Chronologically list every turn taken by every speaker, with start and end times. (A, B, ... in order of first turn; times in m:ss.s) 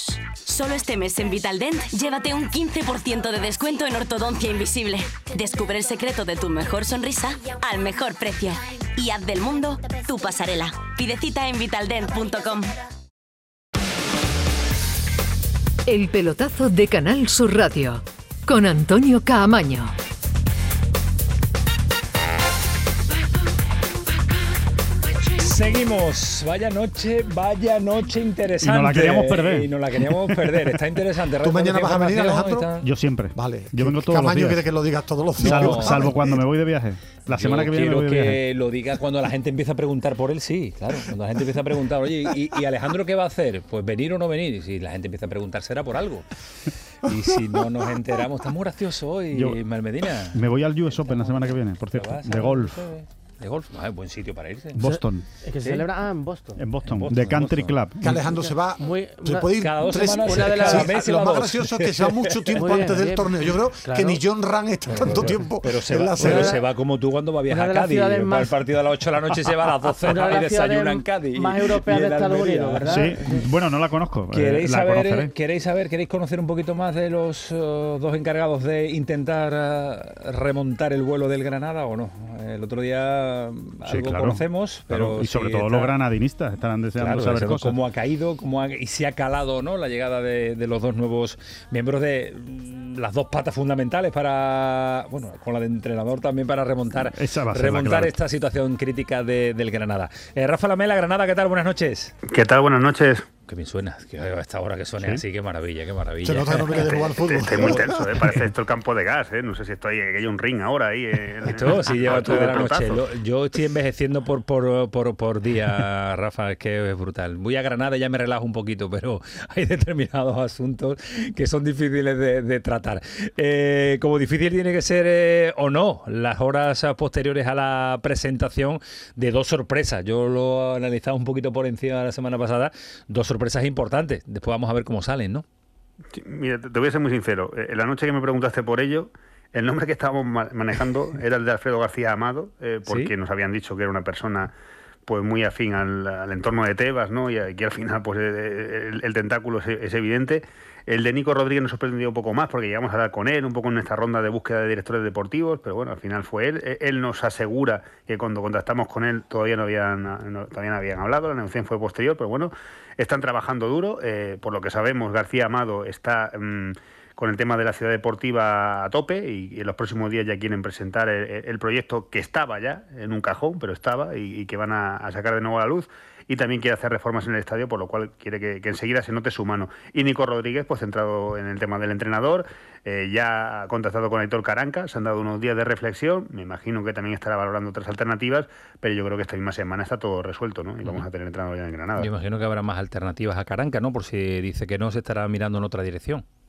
0:00.4-0:12.8 A
0:15.8-0:19.9 B
0:25.4-0:32.8 C
0:28.6-0:30.8 D
0:31.4-0:32.7 E
0:32.8-0:34.6 D
0:33.3-0:36.4 E
0:35.4-0:36.2 C
0:35.4-0:38.4 D
0:37.3-0:46.3 C
0:47.0-0:54.8 C
0:50.3-0:52.8 D
0:54.7-0:55.2 D
0:54.8-0:56.6 F
0:56.6-0:58.1 D
0:56.8-0:57.7 C
0:58.0-1:06.6 E
0:58.3-1:00.9 F
0:59.6-1:02.6 C
1:02.6-1:04.2 F
1:04.9-1:13.1 C
1:06.2-1:06.6 F
1:07.5-1:08.5 F
1:10.0-1:13.4 F
1:12.9-1:15.3 D
1:14.3-1:26.0 C
1:23.8-1:27.7 D
1:27.0-1:42.1 C
1:37.0-1:38.1 D
1:42.3-1:43.3 G
1:43.5-1:47.0 C
1:46.2-1:48.3 E
1:46.9-1:53.0 G
1:51.4-2:15.4 C
2:16.1-2:24.5 G
2:22.8-2:23.1 C
2:25.1-3:12.1 G
3:12.0-3:16.2 C